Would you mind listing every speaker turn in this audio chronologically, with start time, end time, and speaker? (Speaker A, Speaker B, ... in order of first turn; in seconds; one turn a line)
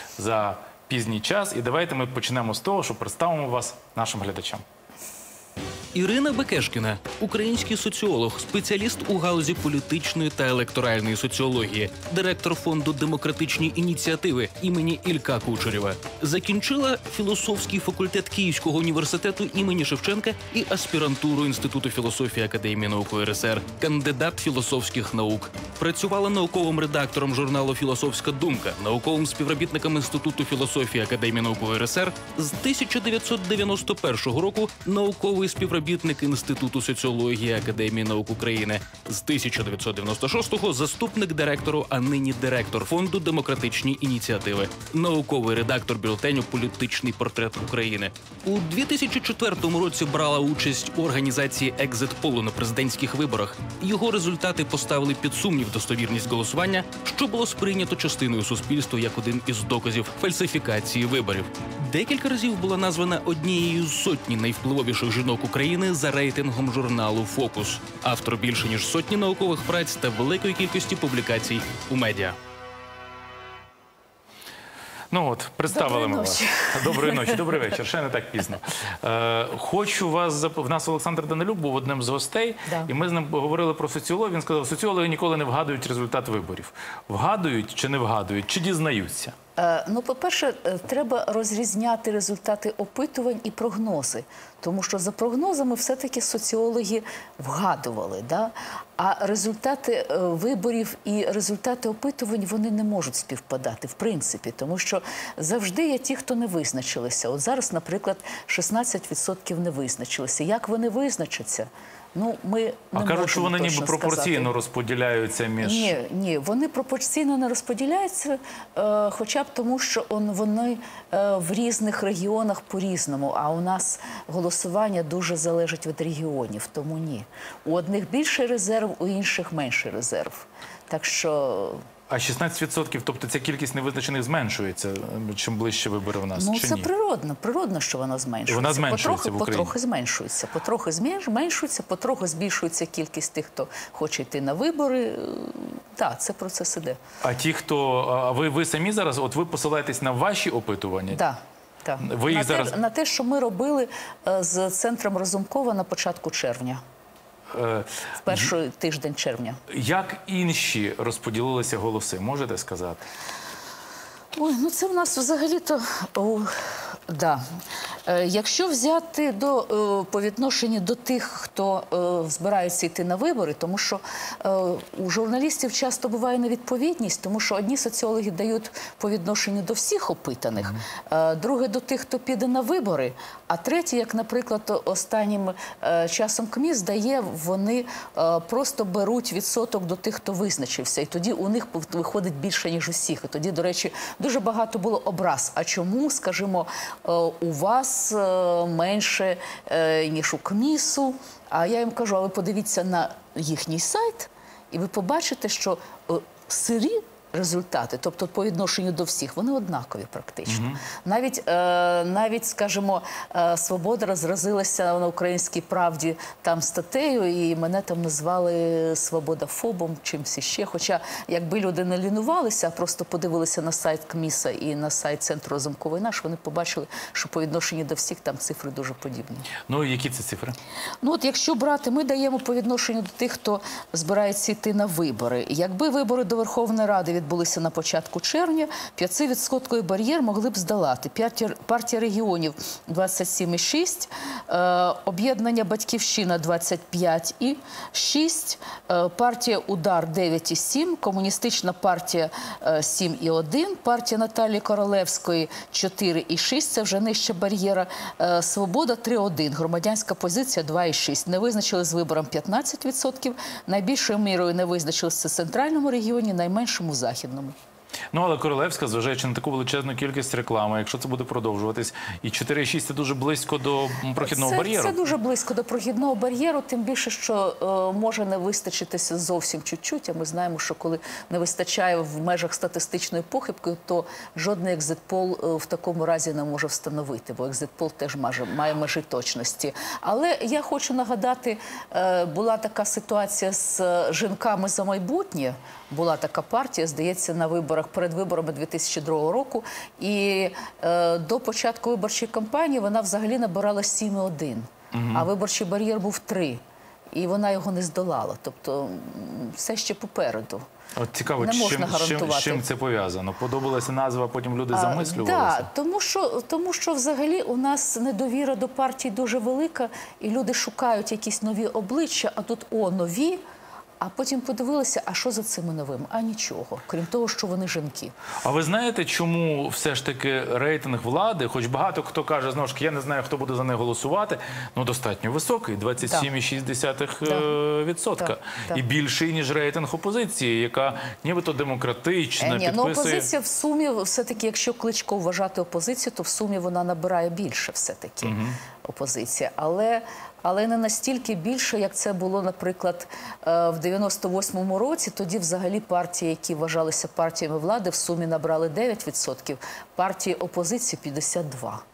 Speaker A: 0.2-4.6
Speaker B: 5.9-72.3
Speaker A: 75.1-89.3
Speaker C: 75.7-77.4
Speaker C: 89.6-114.5
Speaker A: 112.9-115.9
Speaker C: 115.6-131.8
Speaker A: 132.1-136.9
Speaker C: 136.3-147.0
Speaker A: 138.5-139.7
Speaker A: 147.2-151.2
Speaker C: 151.1-156.8
Speaker A: 152.0-152.7
Speaker A: 157.5-158.5
Speaker C: 158.2-159.6
Speaker A: 159.7-163.0
Speaker C: 164.3-167.4
Speaker C: 168.1-229.5
Speaker A: 210.5-210.8
Speaker A: 229.7-230.6
Speaker C: 231.0-267.5
Speaker A: 268.1-275.0
Speaker C: 274.2-306.6
Speaker A: 304.9-305.3
Speaker C: 307.1-310.6
Speaker A: 310.9-315.7
Speaker C: 311.4-312.6
Speaker C: 314.7-323.4
Speaker C: 324.0-328.1
Speaker A: 328.4-343.3
Speaker C: 337.2-337.5
Speaker C: 338.2-338.8
Speaker C: 342.4-361.8
Speaker A: 348.2-348.6